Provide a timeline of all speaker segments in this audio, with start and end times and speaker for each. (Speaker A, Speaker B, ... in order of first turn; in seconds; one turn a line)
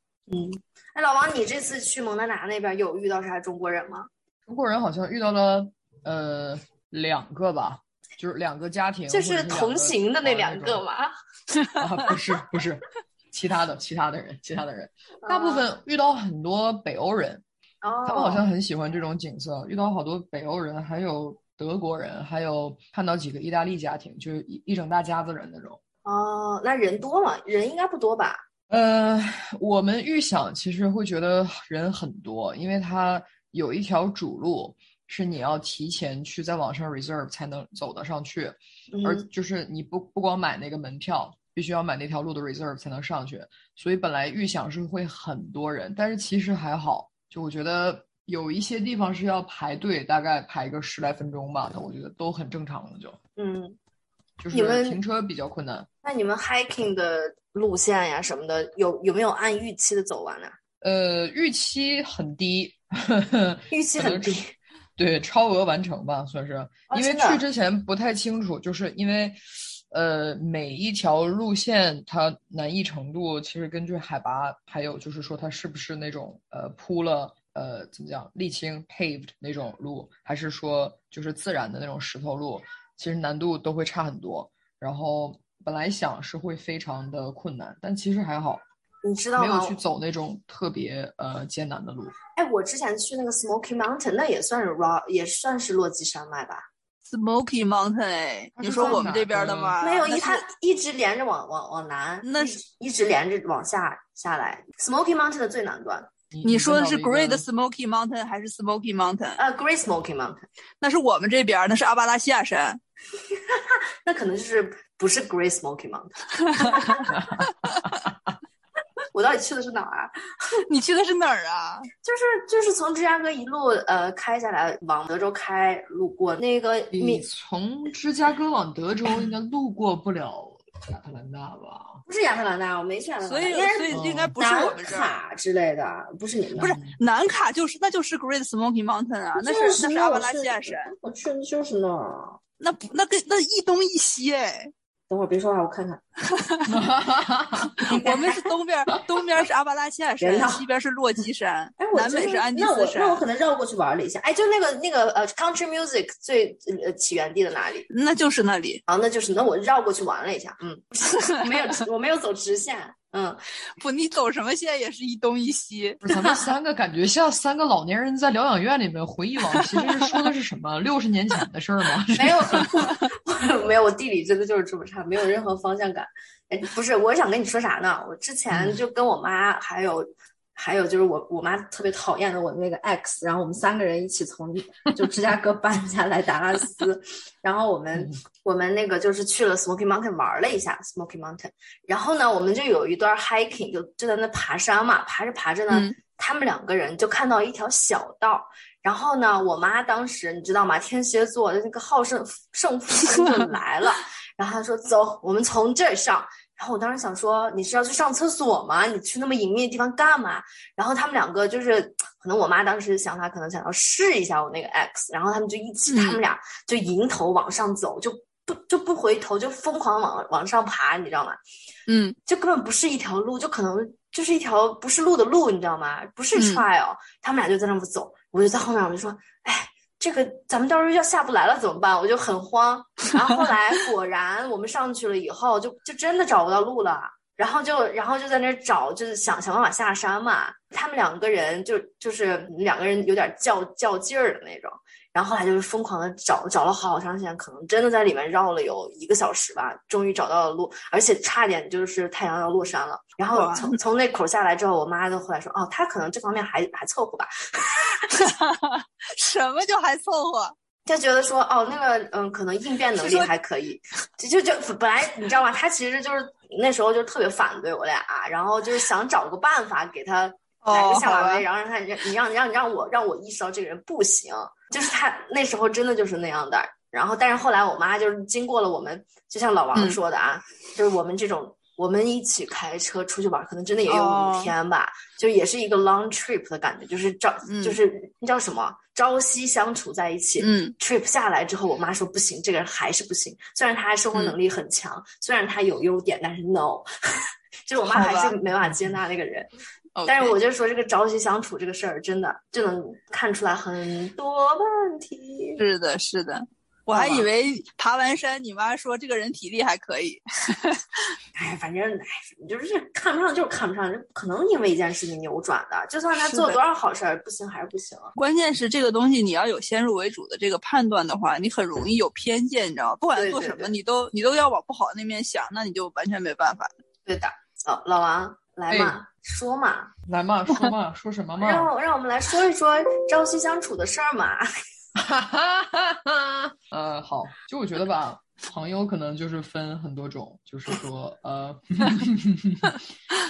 Speaker A: 0.3-4.1
Speaker B: 4.5-10.8
Speaker A: 9.1-11.1
Speaker B: 11.8-17.4
Speaker A: 15.2-15.7
Speaker A: 17.8-18.4
Speaker B: 18.1-25.8
Speaker A: 26.1-28.4
Speaker B: 28.7-53.2
Speaker A: 38.9-39.3
Speaker A: 53.4-53.8
Speaker B: 54.4-55.9
Speaker A: 54.5-55.0
Speaker A: 56.0-60.5
Speaker B: 60.8-64.4
Speaker A: 63.7-64.5
Speaker B: 65.0-88.6
Speaker A: 66.9-67.4
Speaker A: 89.0-89.8
Speaker B: 89.4-92.2
Speaker A: 92.4-96.7
Speaker C: 97.1-100.4
Speaker A: 98.6-99.0
Speaker B: 98.7-99.8
Speaker A: 99.8-106.1
Speaker C: 102.2-102.6
Speaker B: 106.3-107.5
Speaker C: 106.4-109.4
Speaker A: 109.4-110.5
Speaker C: 110.8-112.8
Speaker A: 113.3-117.1
Speaker C: 116.4-117.0
Speaker B: 117.1-117.4
Speaker A: 119.1-120.1
Speaker C: 120.7-121.9
Speaker A: 122.0-127.3
Speaker B: 126.9-132.0
Speaker A: 132.1-136.8
Speaker C: 133.2-135.1
Speaker B: 133.9-134.4
Speaker B: 136.6-137.0
Speaker C: 136.6-140.9
Speaker A: 139.4-142.4
Speaker C: 142.6-144.7
Speaker A: 145.1-146.0
Speaker C: 146.3-146.7
Speaker B: 146.7-147.8
Speaker C: 147.8-153.2
Speaker A: 147.9-148.5
Speaker A: 150.2-150.6
Speaker A: 151.8-157.9
Speaker C: 157.9-158.8
Speaker A: 158.9-163.4
Speaker C: 163.8-166.0
Speaker B: 166.0-172.7
Speaker A: 172.1-221.4
Speaker B: 178.5-178.8
Speaker C: 195.7-195.9
Speaker C: 215.9-216.2
Speaker C: 221.9-222.2
Speaker A: 222.3-258.3
Speaker C: 226.3-226.6
Speaker C: 253.3-253.8
Speaker C: 258.2-260.5
Speaker A: 260.9-299.5
Speaker C: 262.9-263.3
Speaker C: 270.6-271.4
Speaker C: 283.9-284.5
Speaker C: 287.5-287.8
Speaker C: 290.4-290.7
Speaker C: 297.8-298.4
Speaker C: 300.0-300.4
Speaker A: 300.1-305.6
Speaker C: 305.6-310.8
Speaker A: 306.9-307.3
Speaker A: 311.4-318.1
Speaker C: 316.1-316.6
Speaker C: 318.2-326.7
Speaker A: 323.1-323.7
Speaker A: 327.1-329.9
Speaker B: 328.7-328.9
Speaker B: 330.1-331.7
Speaker A: 331.4-334.5
Speaker B: 335.0-342.8